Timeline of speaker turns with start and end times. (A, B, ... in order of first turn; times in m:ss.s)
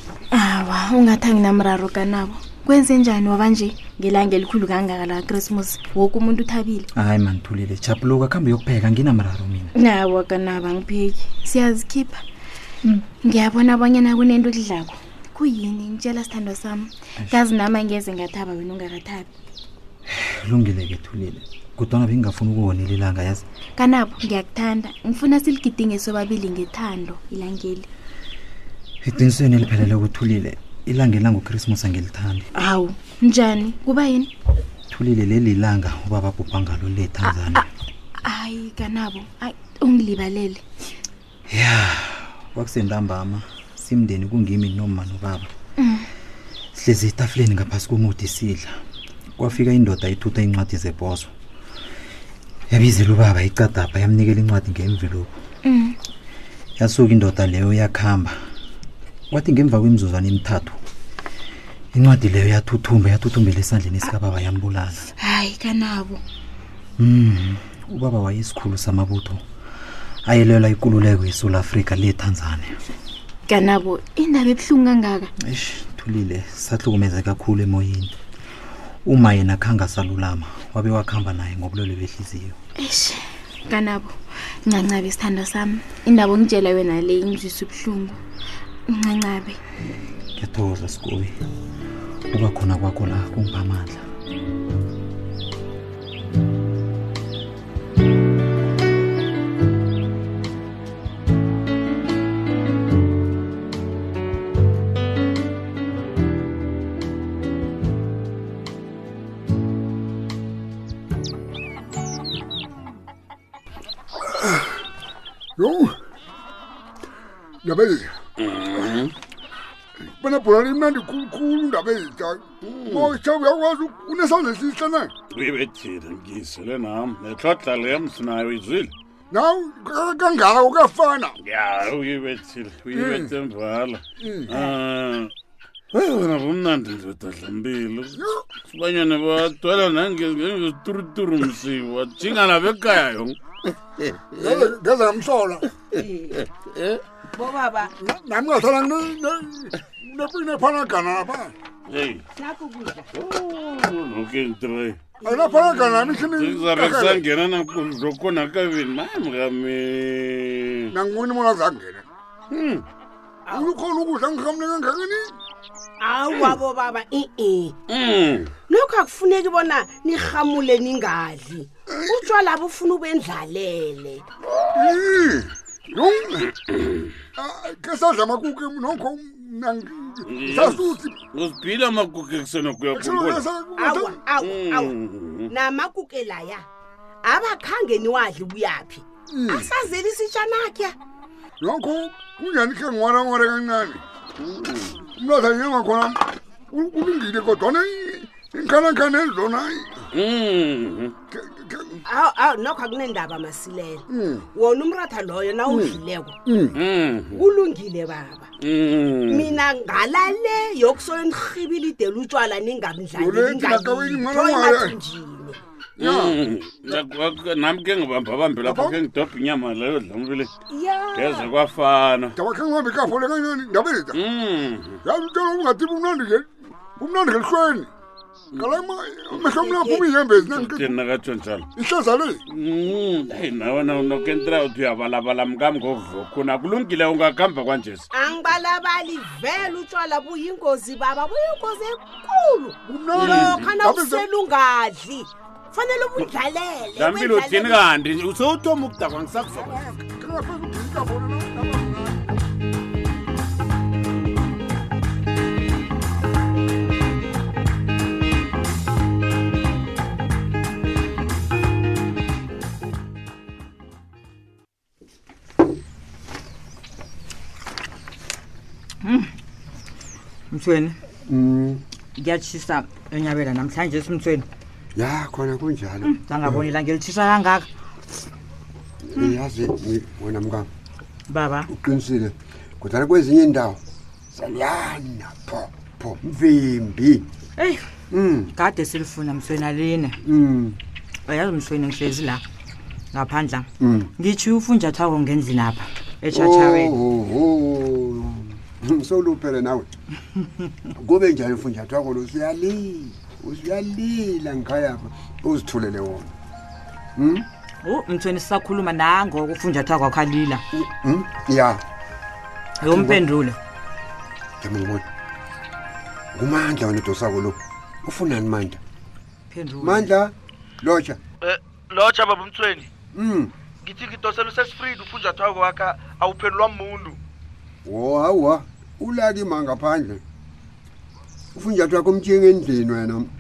0:00.3-0:06.9 A
0:06.9-0:09.7 B
0:09.8-0:12.2 A
0:13.2-0:19.3 A
0:20.1-0:23.4 B
0:23.8-0:27.9 A
0:29.0-0:32.5 B
0:32.6-0:34.3 A
0:34.9-0:37.6 B
0:37.2-0:37.6 A
0:38.2-0:40.6 A
0:41.5-0:45.5 B
0:45.8-0:46.1 A
0:46.8-0:48.7 B
0:49.4-0:51.3 B
0:52.7-0:55.3 B
0:55.6-0:56.0 A
0:56.8-0:58.3 B
0:59.3-1:00.8 B
1:01.9-1:05.1 B
1:05.2-1:06.2 A
1:07.0-1:09.4 B
1:10.3-1:12.7 B
1:13.5-1:15.3 A
1:15.4-1:18.1 B
1:19.0-1:22.6 B
1:22.8-1:24.1 A
1:24.7-1:28.2 A
1:28.9-1:29.6 A
1:30.4-1:31.4 B
1:32.3-1:34.0 B
1:54.3-1:54.6 C
1:55.6-1:55.9 C
1:57.6-1:58.1 C
1:58.4-1:59.1 D
2:00.2-2:05.1 C
2:02.6-2:03.2 D
2:05.3-2:08.9 D
2:09.3-2:11.4 C
2:11.4-2:15.3 D
2:12.9-2:13.3 C
2:14.2-2:14.6 C
2:15.9-2:23.4 D
2:18.2-2:18.4 C
2:24.3-2:24.7 D
2:24.4-2:25.6 C
2:27.3-2:27.9 E
2:28.0-2:31.5 C
2:31.9-2:32.2 D
2:32.4-2:33.1 E
2:33.1-2:35.0 D
2:35.2-2:36.1 E
2:35.2-2:37.2 C
2:36.1-2:40.9 D
2:40.9-2:42.0 C
2:42.5-2:42.8 D
2:43.5-2:45.4 C
2:46.0-2:47.8 E
2:47.9-2:48.5 D
2:48.7-2:54.2 E
2:51.9-2:52.3 C
2:54.7-2:56.5 C
2:57.4-3:01.2 C
3:00.3-3:03.5 D
3:02.9-3:04.3 C
3:03.8-3:04.9 E
3:04.4-3:05.5 D
3:05.5-3:06.7 E
3:07.2-3:09.0 E
3:09.3-3:09.7 C
3:09.6-3:11.0 E
3:11.6-3:14.0 C
3:14.8-3:20.0 C
3:20.1-3:21.2 D
3:21.3-3:22.0 C
3:22.1-3:26.4 E
3:24.1-3:24.5 C
3:25.7-3:26.8 C
3:26.7-3:27.4 D
3:27.3-3:28.5 E
3:28.6-3:29.6 D
3:29.3-3:35.6 E
3:33.2-3:35.0 C
3:36.0-3:37.0 C
3:36.0-3:40.5 D
3:38.6-3:39.0 C
3:40.7-3:41.4 E
3:41.1-3:42.4 D
3:42.4-3:44.2 C
3:44.1-3:45.0 D
3:45.1-3:46.5 C
3:47.0-3:47.9 C
3:48.6-3:50.9 C
3:49.3-3:50.1 E
3:50.5-3:51.7 D
3:51.8-3:52.4 C
3:52.5-3:58.1 D
3:58.2-4:07.8 E
4:02.8-4:04.3 C
4:03.1-4:03.8 D
4:06.9-4:09.4 D
4:09.4-4:12.4 C
4:29.0-4:29.3 F
4:30.5-4:31.0 F
4:31.3-4:31.8 G
4:32.2-4:34.5 F
4:35.0-4:36.6 G
4:36.0-4:37.7 F
4:39.0-4:40.7 G
4:41.3-4:41.7 F
4:41.7-4:43.8 G
4:44.3-4:47.3 G
4:47.6-4:47.8 F
4:48.1-4:48.6 G
4:48.6-4:50.2 F
4:50.2-4:50.8 G
4:51.3-4:52.4 F
4:53.1-4:53.7 F
4:53.8-4:54.1 G
4:54.2-4:57.0 F
4:56.3-4:59.9 G
5:01.0-5:06.3 G
5:07.2-5:07.4 G
5:07.8-5:10.6 F
5:10.7-5:11.8 G
5:12.8-5:13.6 F
5:12.9-5:13.2 G
5:14.6-5:15.0 G
5:16.4-5:18.8 G
5:19.5-5:20.1 F
5:19.8-5:21.2 G
5:21.4-5:22.9 H
5:23.1-5:23.5 G
5:23.8-5:27.2 H
5:27.8-5:30.2 G
5:31.6-5:33.3 G